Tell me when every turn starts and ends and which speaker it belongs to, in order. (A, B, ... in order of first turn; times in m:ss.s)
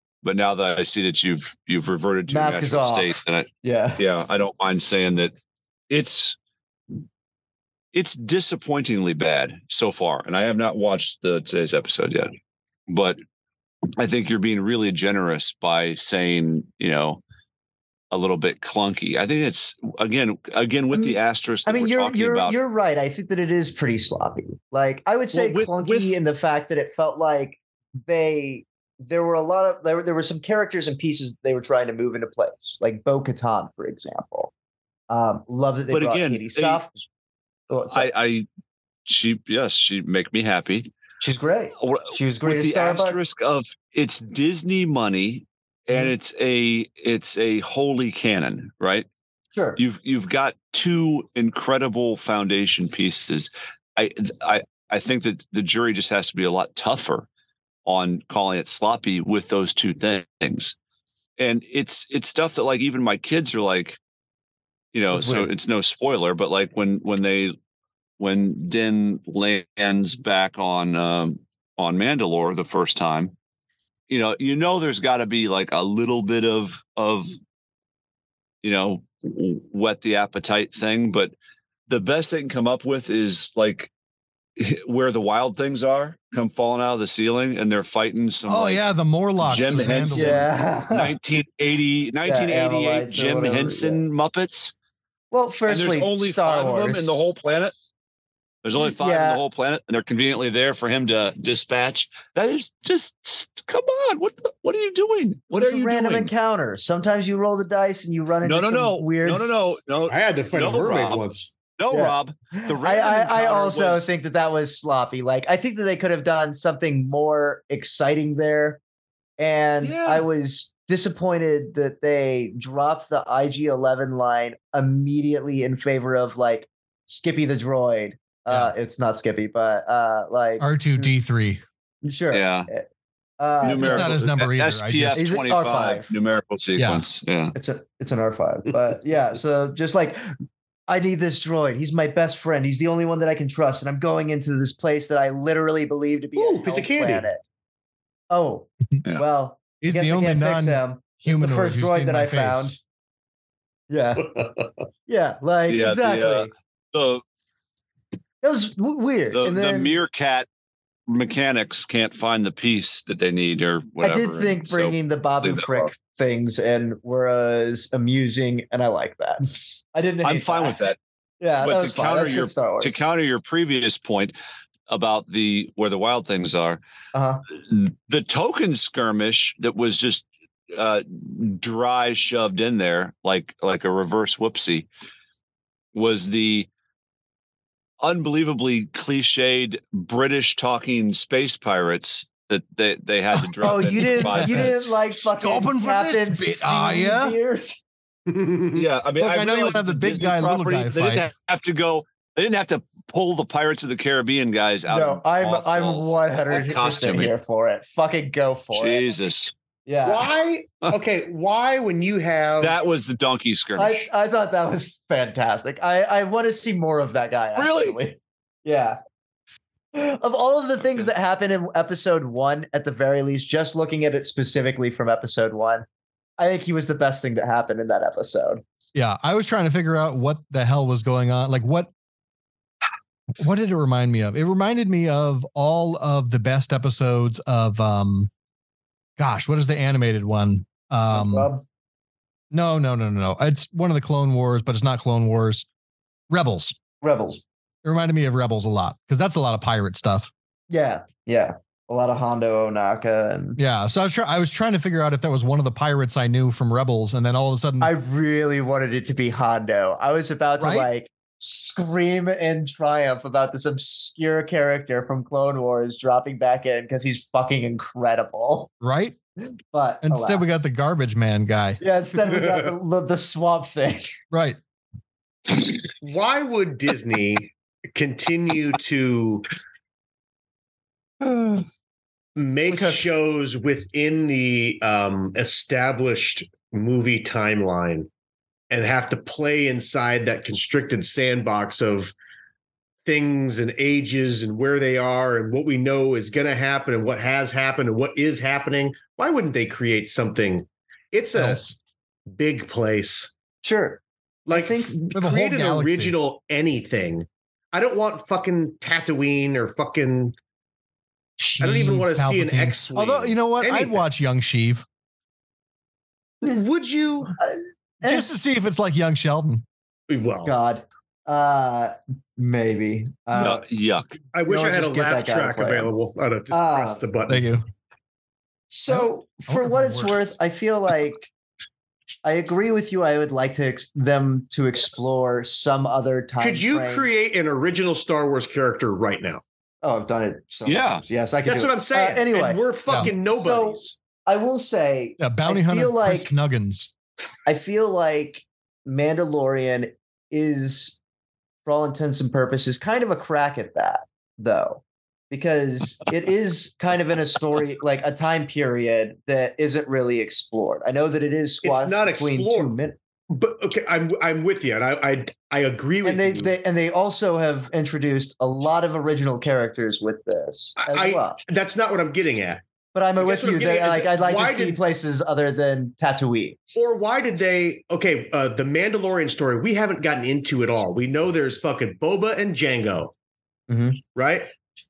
0:00.2-0:05.3 A
0:02.3-0:04.0 B
0:05.9-0:06.4 A
0:07.9-0:12.3 A
0:12.9-0:13.2 A
0:14.0-0:17.2 A
0:18.1-0:22.6 A
0:20.9-0:34.5 B
0:25.3-0:26.1 A
0:35.1-0:36.9 B
0:35.9-0:36.8 A
0:37.7-0:38.1 B
0:37.9-0:38.5 A
0:39.0-0:40.9 A
0:41.2-0:43.2 B
0:41.8-0:49.0 A
0:49.5-0:49.8 B
0:49.8-0:57.3 A
0:57.8-1:00.7 A
1:01.4-1:04.0 A
1:04.9-1:07.5 A
1:05.1-1:05.5 B
1:08.2-1:13.3 A
1:14.1-1:17.4 A
1:18.6-1:21.3 A
1:21.9-1:23.9 A
1:24.6-1:28.8 A
1:28.5-1:30.5 C
1:29.4-1:34.7 A
1:30.1-1:31.2 B
1:32.2-1:34.0 B
1:35.3-1:37.2 B
1:35.7-1:37.7 A
1:38.6-1:46.3 A
1:38.8-1:39.4 B
1:45.5-1:49.8 B
1:48.4-1:51.2 A
1:50.1-1:51.5 D
1:51.8-1:54.1 A
1:51.9-1:58.8 B
1:59.4-2:11.1 B
1:59.8-2:00.2 A
2:10.6-2:11.6 C
2:12.0-2:12.8 B
2:12.3-2:12.7 A
2:13.4-2:14.2 B
2:13.6-2:17.5 A
2:13.6-2:15.2 C
2:15.1-2:16.1 B
2:16.8-2:17.0 C
2:17.5-2:20.3 B
2:20.9-2:27.4 B
2:26.4-2:27.2 D
2:28.3-2:32.8 B
2:29.8-2:32.7 C
2:33.9-2:34.3 B
2:34.2-2:34.7 D
2:35.1-2:36.5 B
2:35.7-2:37.2 A
2:38.4-2:39.9 B
2:39.3-2:40.4 A
2:41.1-2:45.9 A
2:44.0-2:49.4 B
2:49.9-2:50.8 B
2:50.2-2:51.0 A
2:51.4-2:53.0 B
2:51.6-2:54.3 A
2:54.9-2:56.8 A
2:57.1-2:57.4 B
2:57.7-3:04.9 A
3:05.9-3:06.7 A
3:08.0-3:14.9 A
3:13.4-3:14.7 C
3:13.6-3:17.8 B
3:15.3-3:17.4 C
3:18.3-3:18.9 D
3:18.7-3:27.3 A
3:19.2-3:21.3 C
3:24.9-3:29.0 B
3:28.7-3:29.5 A
3:29.8-3:30.3 B
3:30.0-3:32.8 D
3:32.6-3:34.0 A
3:33.8-3:39.0 B
3:37.6-3:38.0 A
3:39.9-3:45.8 B
3:46.4-3:48.6 B
3:48.9-3:51.9 C
3:53.4-3:58.3 C
3:59.2-4:01.5 C
4:01.1-4:01.6 B
4:02.5-4:05.7 C
4:06.3-4:06.8 C
4:07.0-4:07.4 B
4:07.8-4:10.3 C
4:10.7-4:13.6 B
4:13.6-4:17.9 C
4:17.8-4:28.7 B
4:20.6-4:20.9 C
4:28.8-4:29.2 C
4:29.7-4:30.6 B
4:30.0-4:31.8 C
4:31.8-4:34.2 B
4:34.3-4:34.6 C
4:36.0-4:39.4 D
4:41.3-4:41.5 A
4:42.4-4:48.1 D
4:42.7-4:43.0 B
4:48.7-4:52.1 D
4:53.0-5:01.7 D
5:01.4-5:01.8 C
5:02.3-5:03.3 D
5:03.6-5:05.0 B
5:04.4-5:10.3 D
5:05.1-5:06.2 C
5:11.4-5:14.8 C
5:11.6-5:14.0 D
5:16.4-5:17.4 D
5:17.4-5:18.3 B
5:18.0-5:19.6 C
5:20.1-5:20.5 D
5:20.4-5:23.6 B
5:23.3-5:24.2 A
5:24.3-5:27.4 D
5:24.4-5:25.9 B
5:26.5-5:27.0 B
5:27.3-5:27.6 C
5:28.7-5:31.3 B
5:28.9-5:30.2 C
5:32.2-5:37.1 B
5:36.4-5:39.4 D
5:39.8-5:46.3 B
5:40.6-5:41.0 A
5:41.4-5:44.0 D
5:45.2-5:46.9 C
5:47.4-5:51.0 B
5:51.6-6:03.0 B
6:01.6-6:02.7 D
6:03.3-6:06.5 D
6:06.0-6:11.4 B
6:10.8-6:12.6 D
6:12.9-6:16.6 B
6:13.2-6:14.8 D
6:16.7-6:23.1 D
6:23.7-6:24.0 B
6:24.1-6:24.5 D